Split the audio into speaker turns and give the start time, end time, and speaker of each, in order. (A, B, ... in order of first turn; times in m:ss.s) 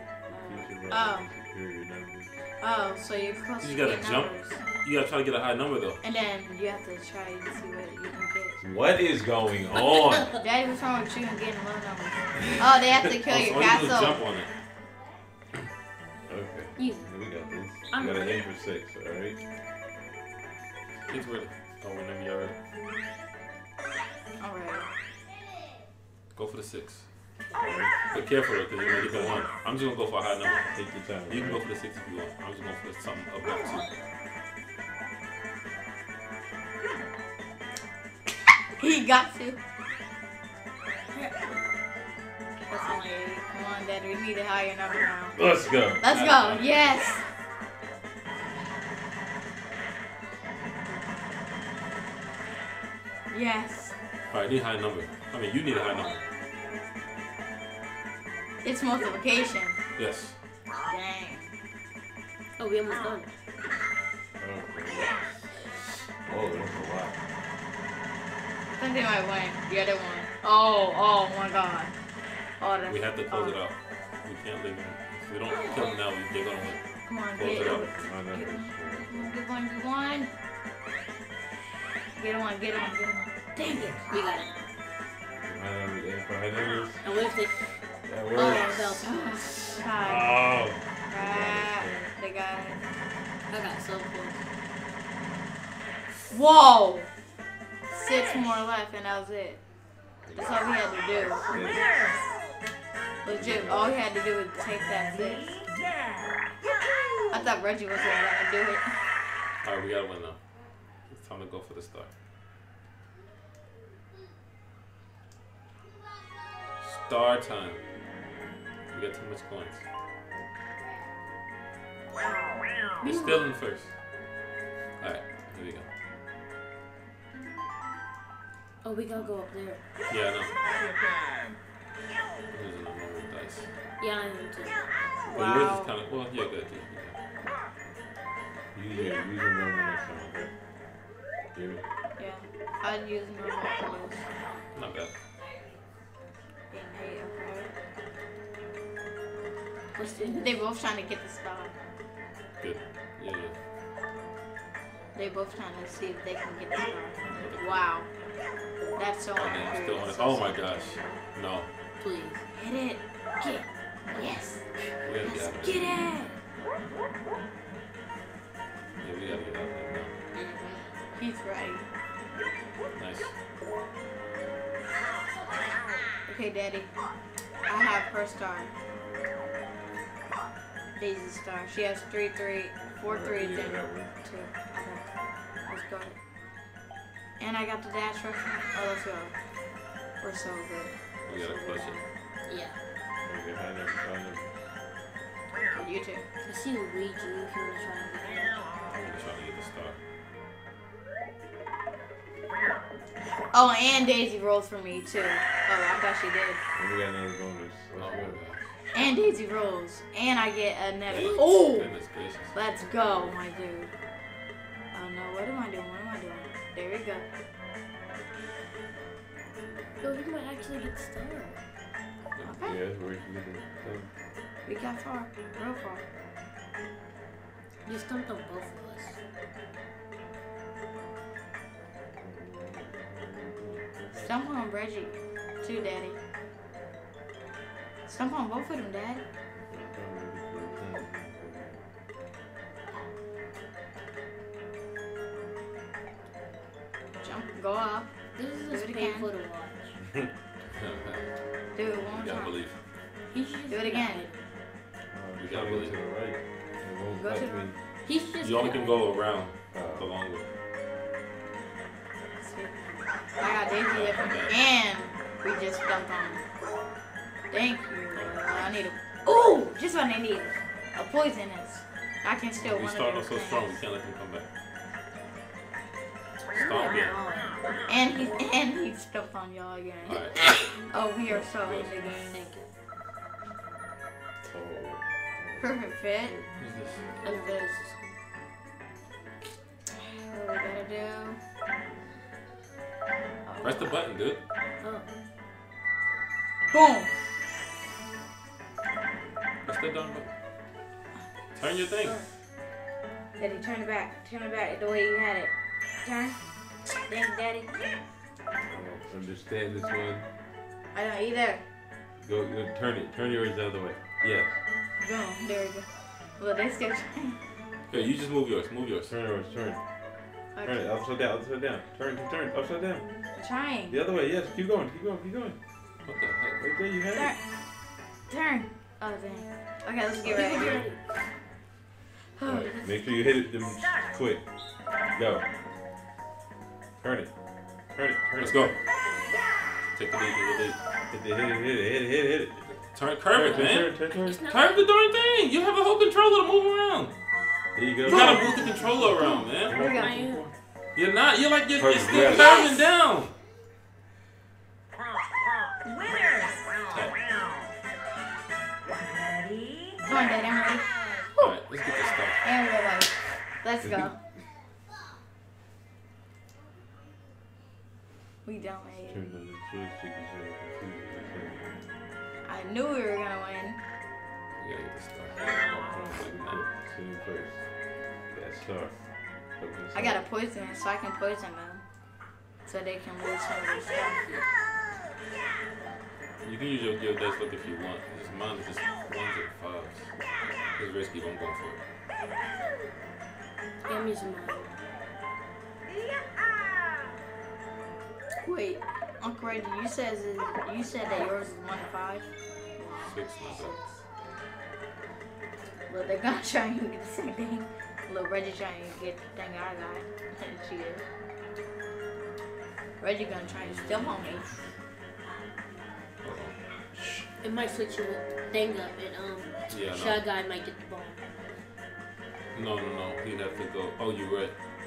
0:00.3-0:01.2 A
0:00.4-0:02.3 B
0:02.6-0:04.6 A
0:03.6-0:06.0 C
0:06.0-0:08.6 A
0:08.6-0:10.3 B
0:10.4-0:14.2 A
0:13.2-0:14.5 C
0:16.3-0:19.4 B
0:16.8-0:17.1 D
0:17.9-0:18.4 D
0:21.1-0:22.5 C
0:24.4-0:24.9 A
0:26.3-0:27.0 C
0:27.6-0:28.0 B
0:28.1-0:30.7 C
0:28.9-0:29.4 B
0:30.7-0:31.6 B
0:31.3-0:33.8 C
0:38.8-0:39.6 A
0:42.7-0:45.4 A
0:45.4-0:46.0 B
0:46.0-0:47.2 A
0:46.0-0:46.6 C
0:53.3-0:53.9 A
0:54.3-0:56.2 C
0:58.6-0:59.8 A
1:00.0-1:00.3 C
1:00.8-1:01.5 A
1:02.6-1:03.3 D
1:04.4-1:05.5 B
1:06.2-1:07.2 B
1:08.8-1:11.9 A
1:12.6-1:13.6 A
1:12.9-1:16.8 C
1:17.1-1:20.3 A
1:17.4-1:17.9 C
1:17.6-1:19.3 B
1:22.2-1:24.0 A
1:23.6-1:24.0 B
1:24.1-1:24.5 D
1:25.4-1:27.0 B
1:27.0-1:27.5 D
1:28.1-1:28.8 B
1:28.3-1:30.4 A
1:28.4-1:29.1 D
1:30.0-1:32.1 B
1:31.1-1:32.8 A
1:33.5-1:34.4 D
1:36.3-1:37.1 A
1:37.9-1:39.6 A
1:40.2-1:40.7 C
1:40.3-1:41.4 A
1:41.1-1:41.9 B
1:43.2-1:45.6 A
1:43.4-1:43.9 B
1:47.3-1:48.9 A
1:49.6-1:50.4 C
1:51.1-1:52.1 C
1:56.8-1:57.8 C
1:58.9-1:59.8 C
2:03.0-2:03.4 D
2:03.0-2:03.9 C
2:05.0-2:05.8 C
2:08.8-2:09.8 D
2:10.1-2:10.5 C
2:12.5-2:13.7 C
2:14.0-2:14.9 D
2:15.2-2:15.9 A
2:15.3-2:17.2 C
2:18.7-2:20.5 B
2:21.5-2:21.8 B
2:22.2-2:24.3 A
2:24.7-2:25.1 C
2:26.7-2:27.7 A
2:29.9-2:30.6 D
2:30.2-2:31.7 A
2:32.6-2:33.5 C
2:35.1-2:38.1 A
2:37.3-2:37.8 C
2:39.0-2:40.8 A
2:39.4-2:41.7 C
2:42.0-2:42.4 D
2:42.5-2:44.7 A
2:45.0-2:46.1 C
2:45.2-2:46.4 A
2:49.0-2:50.1 C
2:50.3-2:50.9 D
2:51.2-2:51.8 A
2:52.9-2:53.3 C
2:56.2-2:56.9 A
2:57.6-2:58.7 A
3:00.9-3:05.1 A
3:03.0-3:04.1 B
3:05.6-3:06.2 A
3:07.4-3:09.3 A
3:10.2-3:12.0 A
3:11.2-3:12.0 C
3:12.4-3:12.8 D
3:13.2-3:14.5 B
3:15.7-3:16.2 A
3:16.4-3:18.6 D
3:18.9-3:20.0 C
3:23.5-3:26.6 A
3:26.8-3:28.4 B
3:28.0-3:28.6 C
3:28.9-3:31.9 A
3:31.1-3:33.3 C
3:32.5-3:33.9 A
3:34.9-3:37.2 A
3:40.0-3:41.6 D
3:42.4-3:42.8 A
3:42.6-3:44.1 B
3:44.6-3:46.0 A
3:47.8-3:49.2 D
3:52.2-3:54.4 B
3:54.2-3:56.2 A
3:58.1-3:59.2 A
3:59.6-4:01.8 B
4:07.2-4:08.1 A
4:08.4-4:09.9 D
4:08.6-4:09.3 A
4:10.0-4:10.3 B
4:10.7-4:11.3 C
4:11.7-4:12.6 A
4:11.8-4:12.7 C
4:13.3-4:14.2 A
4:13.3-4:14.5 D
4:15.1-4:17.8 B
4:15.4-4:16.0 C
4:17.2-4:17.6 A
4:18.0-4:18.9 D
4:18.4-4:20.4 C
4:19.7-4:20.1 B
4:22.4-4:26.4 A
4:23.9-4:24.5 C
4:27.5-4:33.8 A
4:28.1-4:28.7 C
4:32.6-4:34.4 C
4:36.5-4:37.2 C
4:36.5-4:37.8 D
4:37.9-4:42.4 A
4:40.1-4:40.5 C
4:41.3-4:41.9 C
4:42.3-4:42.7 D
4:44.4-4:46.3 B
4:45.6-4:46.4 A
4:46.6-4:47.2 C
4:47.2-4:48.2 D
4:47.2-4:47.7 A
4:50.1-4:51.4 A
4:53.4-4:54.0 A
4:53.6-4:54.4 C
4:54.8-4:55.1 D
4:56.7-4:57.1 A
4:59.6-5:00.3 C
5:01.6-5:02.2 C
5:02.0-5:02.3 D
5:03.4-5:05.5 A
5:06.0-5:06.4 A
5:07.1-5:07.7 A
5:08.6-5:10.2 B
5:10.9-5:11.6 A
5:12.2-5:14.6 B
5:15.0-5:17.4 A
5:17.9-5:19.1 C
5:19.1-5:19.8 B
5:20.5-5:20.9 A
5:20.6-5:23.0 B
5:23.3-5:24.0 A
5:23.9-5:25.6 B
5:26.0-5:26.6 C
5:26.6-5:27.3 B
5:27.1-5:27.4 A
5:28.3-5:30.9 A
5:30.2-5:30.9 B
5:30.3-5:30.9 D
5:32.4-5:32.9 A
5:32.4-5:34.4 B
5:35.1-5:35.4 B
5:37.0-5:37.3 B
5:37.9-5:38.7 B
5:38.4-5:38.7 C
5:40.0-5:40.8 C
5:41.1-5:42.6 B
5:42.9-5:47.1 C
5:43.3-5:44.4 B
5:43.4-5:44.8 D
5:47.7-5:50.5 B
5:48.0-5:49.8 C
5:48.0-5:48.4 A
5:49.2-5:50.1 A
5:49.8-5:50.4 D
5:50.9-5:53.3 C
5:51.8-5:52.7 B
5:52.1-5:52.8 A
5:56.9-5:57.1 C
6:00.0-6:01.5 A
6:01.4-6:02.4 C
6:02.4-6:04.1 A
6:03.8-6:04.1 B
6:08.4-6:09.2 A
6:08.9-6:11.7 B
6:12.4-6:13.8 A
6:14.6-6:16.6 C
6:15.6-6:17.6 B
6:18.3-6:19.0 B
6:19.6-6:20.2 B
6:19.9-6:21.8 A
6:22.6-6:24.5 A
6:26.4-6:30.1 C
6:30.8-6:31.8 C
6:33.9-6:34.8 D
6:38.4-6:43.8 A
6:43.0-6:43.7 C
6:45.9-6:51.0 A
6:53.0-6:54.5 A
6:53.7-6:54.5 C
6:53.8-6:54.4 B
6:56.2-6:56.6 C
6:57.4-7:01.2 D
6:59.7-7:00.2 C
7:02.5-7:04.5 C